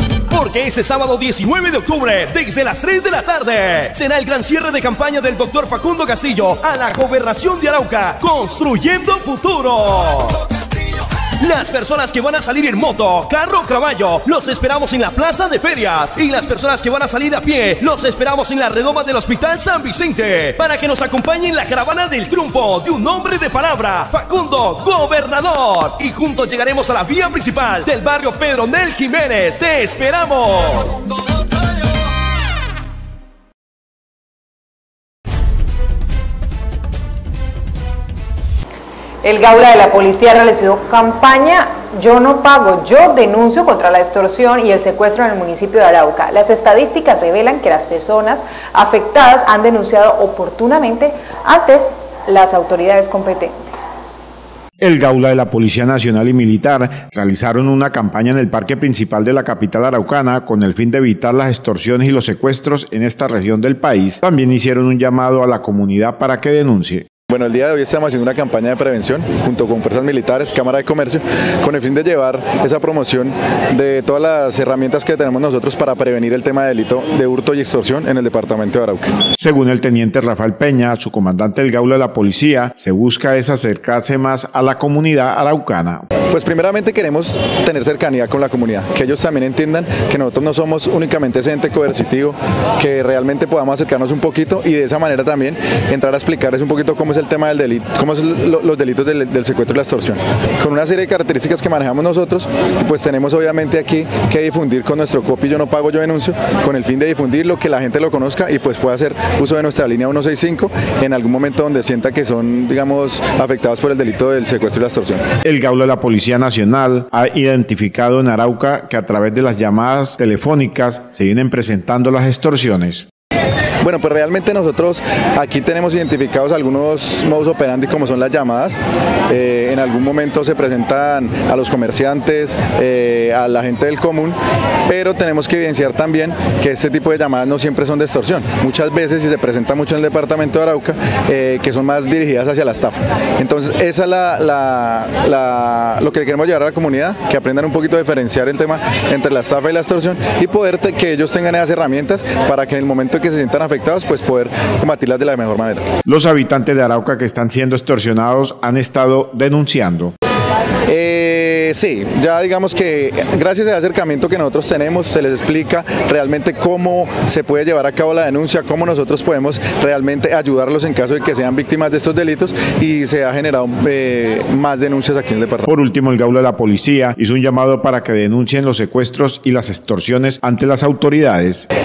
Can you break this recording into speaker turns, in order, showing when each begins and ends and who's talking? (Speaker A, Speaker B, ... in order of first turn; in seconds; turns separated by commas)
Speaker A: 0.3-10.4, Speaker A: 11.4-31.0, Speaker B: 39.2-53.7, Speaker C: 54.8-67.0, Speaker D: 67.3-79.1, Speaker C: 79.4-86.0, Speaker D: 86.3-115.2, Speaker C: 115.4-123.0, Speaker D: 123.8-155.8, Speaker C: 156.0-160.1, Speaker D: 160.9-175.7, Speaker C: 175.7-181.7